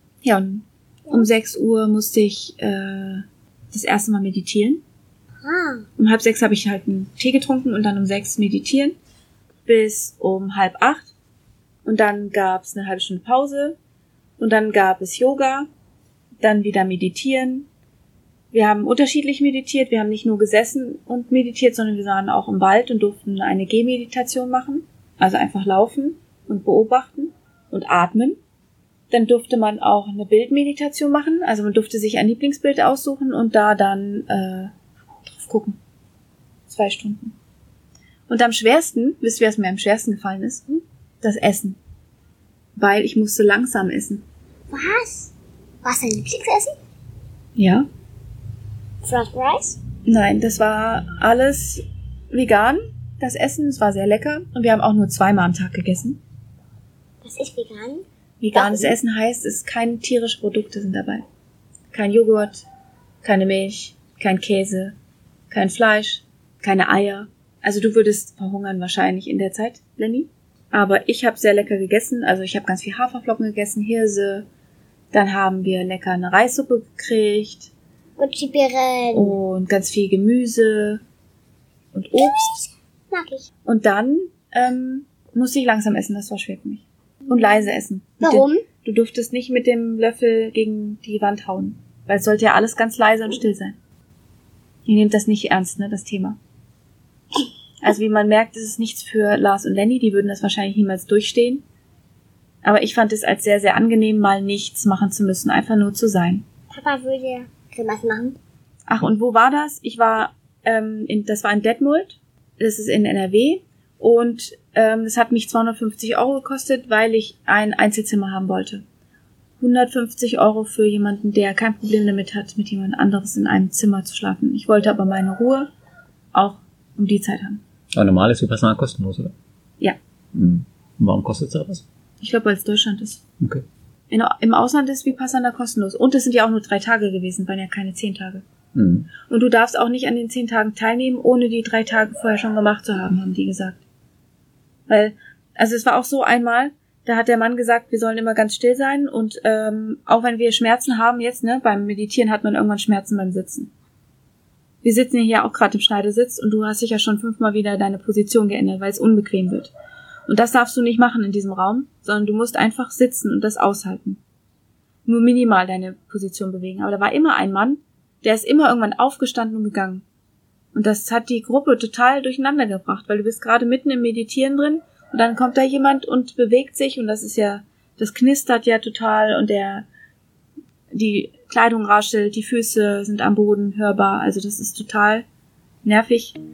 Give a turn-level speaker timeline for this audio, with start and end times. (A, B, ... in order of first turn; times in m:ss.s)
0:00.2-0:04.8 A
0:05.4-0:05.8 B
0:06.0-0:09.0 A
0:09.6-0:11.1 A
0:11.8-0:13.8 A
0:14.4-0:15.7 A
0:16.4-0:17.7 A
0:18.5-0:28.4 A
0:29.1-0:34.7 A
0:35.3-0:35.8 A
0:36.7-0:37.3 A
0:38.3-0:41.8 A
0:42.8-0:44.2 A
0:44.7-0:45.3 B
0:45.8-0:46.7 B
0:47.6-0:47.8 A
0:49.0-0:49.8 B
0:50.0-0:56.2 A
0:57.2-0:58.9 B
0:58.4-1:01.2 A
1:01.9-1:02.6 A
1:03.2-1:04.9 A
1:05.5-1:14.5 A
1:15.1-1:17.7 A
1:18.2-1:19.3 B
1:19.1-1:21.0 A
1:21.9-1:22.5 A
1:22.4-1:23.5 B
1:23.6-1:33.8 A
1:28.2-1:28.6 B
1:34.8-1:36.4 A
1:37.8-1:41.6 A
1:42.6-1:46.4 A
1:46.7-1:48.4 B
1:48.9-1:58.8 A
1:59.6-2:05.7 A
2:06.3-2:07.6 A
2:07.9-2:09.3 C
2:10.3-2:11.8 C
2:12.2-2:13.2 A
2:14.1-2:18.4 A
2:18.7-2:19.1 C
2:19.3-2:23.8 A
2:24.9-2:33.7 A
2:34.8-2:39.7 A
2:40.3-2:44.2 A
2:45.0-2:50.0 A
2:50.7-2:59.9 A
3:00.9-3:05.2 A
3:05.8-3:06.4 A